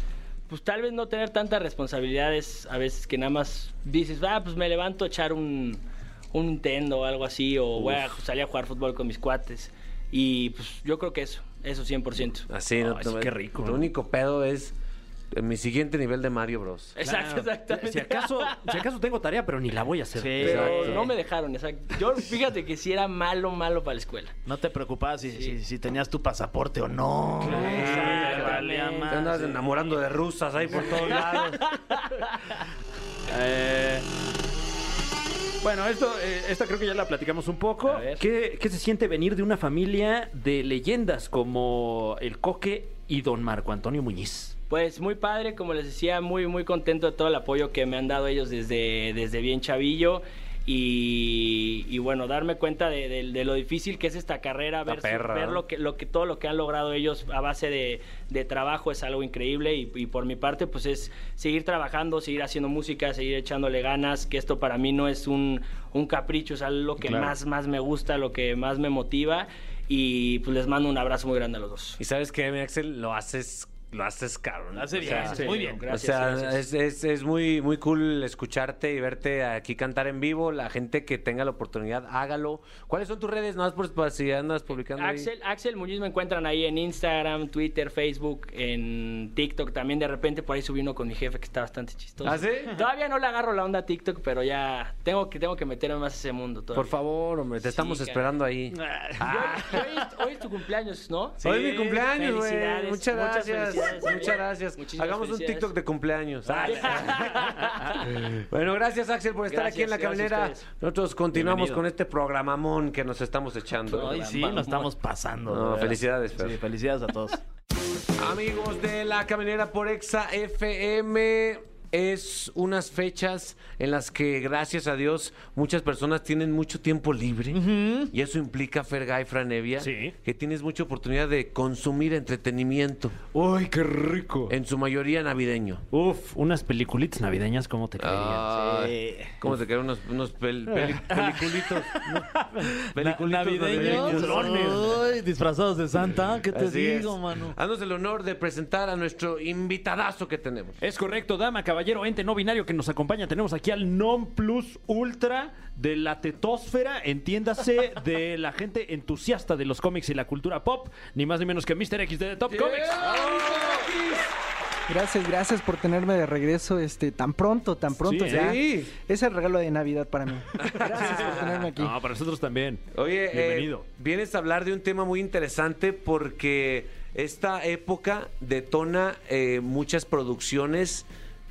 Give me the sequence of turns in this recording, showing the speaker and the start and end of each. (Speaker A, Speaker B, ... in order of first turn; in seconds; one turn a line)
Speaker A: 0.5-5.8
Speaker A: 6.3-12.5
Speaker B: 12.5-14.8
Speaker C: 12.8-13.9
Speaker B: 15.3-17.0
Speaker A: 17.0-18.8
Speaker C: 17.0-21.0
Speaker D: 20.1-21.1
Speaker A: 20.4-24.4
Speaker B: 20.4-21.0
Speaker D: 24.5-29.5
Speaker A: 25.3-25.6
Speaker A: 27.4-29.5
Speaker C: 27.5-28.7
Speaker B: 27.5-28.5
Speaker B: 29.1-31.6
Speaker A: 30.9-32.3
Speaker C: 33.3-34.1
Speaker C: 35.6-44.5
Speaker A: 37.9-38.2
Speaker A: 44.7-72.0
Speaker B: 54.9-55.6
Speaker C: 67.0-67.3
Speaker B: 72.0-85.3
Speaker D: 74.8-75.9
Speaker A: 75.0-76.6
Speaker A: 84.9-96.9
Speaker B: 92.2-92.8
Speaker B: 96.7-99.8
Speaker A: 97.6-98.3
Speaker C: 98.7-99.8
Speaker A: 99.2-105.7
Speaker D: 101.4-101.8
Speaker B: 101.4-107.5
Speaker D: 106.5-107.3
Speaker A: 106.6-108.1
Speaker B: 108.0-114.3
Speaker A: 109.5-110.7
Speaker D: 111.4-111.7
Speaker D: 113.9-117.4
Speaker A: 113.9-114.7
Speaker B: 115.5-116.6
Speaker B: 118.2-133.3
Speaker D: 127.5-128.1
Speaker C: 129.8-130.1
Speaker C: 133.3-134.5
Speaker B: 134.5-135.8
Speaker C: 135.9-138.5
Speaker B: 138.0-142.3
Speaker D: 138.5-139.4
Speaker D: 141.1-147.6
Speaker B: 142.9-144.8
Speaker C: 143.7-145.0
Speaker B: 146.5-150.8
Speaker C: 150.8-163.2
Speaker B: 162.5-164.3
Speaker E: 164.9-171.9
Speaker C: 168.0-168.6
Speaker B: 168.3-168.9
Speaker B: 170.6-171.7
Speaker C: 170.7-173.8
Speaker B: 172.9-181.1